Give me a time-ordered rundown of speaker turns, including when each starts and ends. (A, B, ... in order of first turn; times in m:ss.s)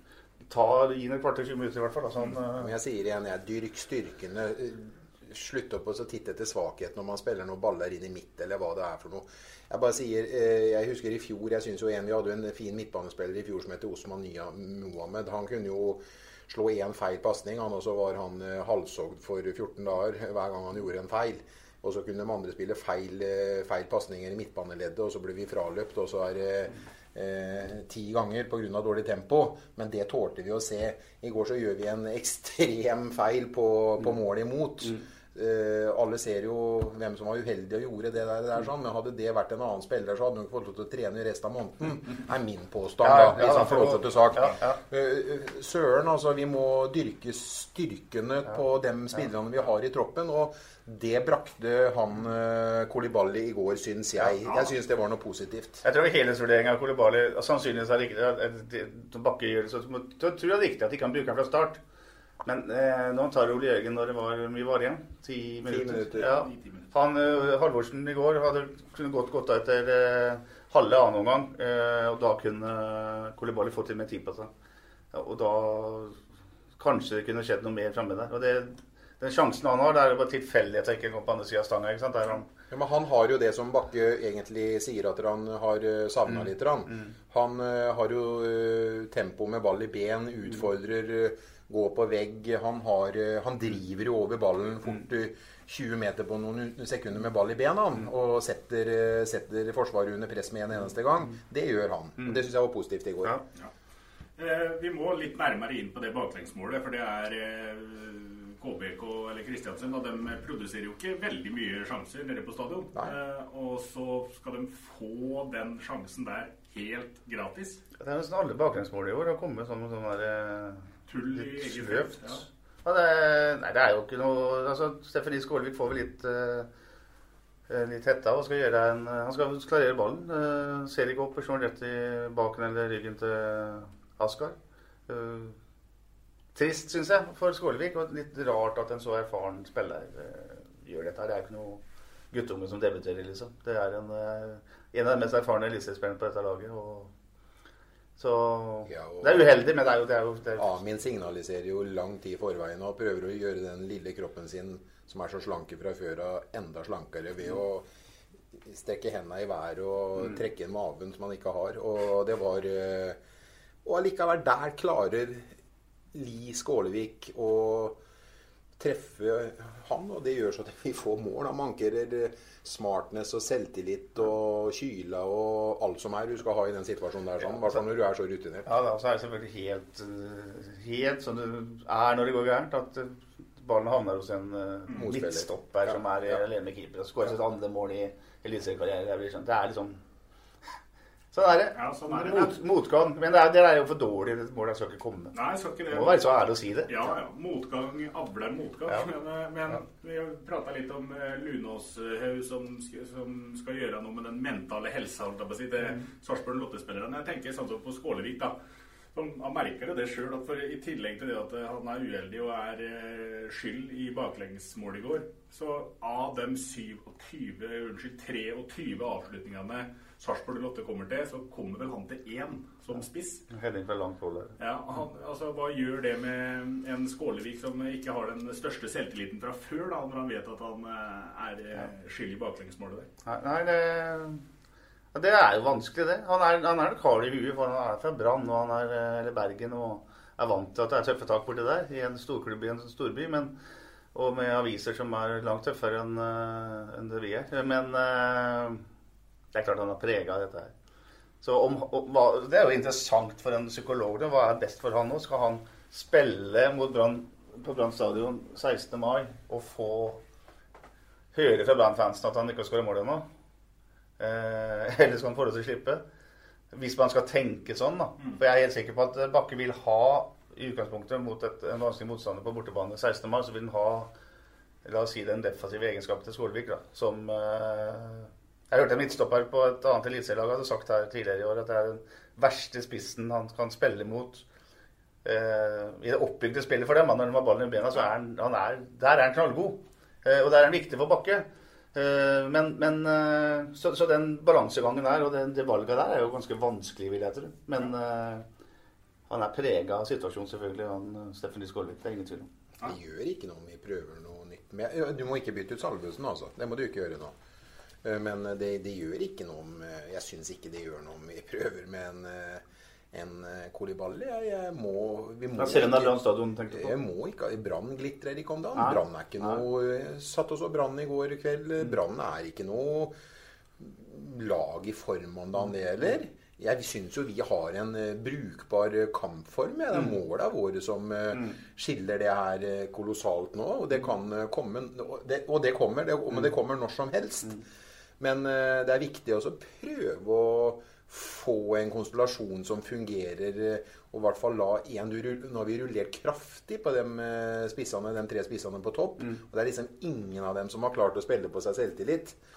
0:00.5-0:02.7 A
0:02.5-0:55.8 B
0:43.0-0:44.8 A
0:54.2-0:54.7 C
0:55.8-1:01.8 A
1:02.4-1:14.5 A
1:05.6-1:06.3 B
1:06.2-1:06.9 C
1:15.1-1:16.2 A
1:16.8-1:22.5 A
1:22.7-1:43.4 B
1:26.3-1:27.1 A
1:44.4-1:57.8 C
1:58.0-2:06.7 A
2:01.1-2:02.4 C
2:07.7-2:14.6 A
2:15.1-2:15.6 A
2:16.5-2:21.8 A
2:22.3-2:27.1 A
2:28.2-2:30.7 A
2:28.9-2:29.6 B
2:30.6-2:37.9 B
2:38.5-2:43.2 B
2:43.8-2:45.5 B
2:46.1-2:48.0 B
2:48.8-2:58.7 B
2:58.6-3:10.0 A
3:05.0-3:06.4 B
3:11.3-3:15.3 A
3:11.7-3:12.5 C
3:15.3-3:16.3 C
3:15.9-3:16.9 A
3:16.9-3:28.5 C
3:29.1-3:43.4 C
3:43.5-3:44.6 A
3:44.6-3:53.1 C
3:53.2-3:54.4 A
3:55.1-4:03.5 A
4:04.1-4:08.8 A
4:09.5-4:10.7 A
4:11.4-4:20.2 A
4:21.3-4:23.2 A
4:24.2-4:26.0 A
4:26.7-4:34.1 A
4:34.8-4:44.4 A
4:45.2-4:58.4 A
4:59.3-5:02.5 A
5:02.8-5:07.3 B
5:08.0-5:16.1 B
5:15.6-5:16.9 A
5:16.7-5:23.1 B
5:18.7-5:19.6 A
5:23.8-5:37.6 B
5:31.3-5:31.6 A
5:38.2-5:52.4 B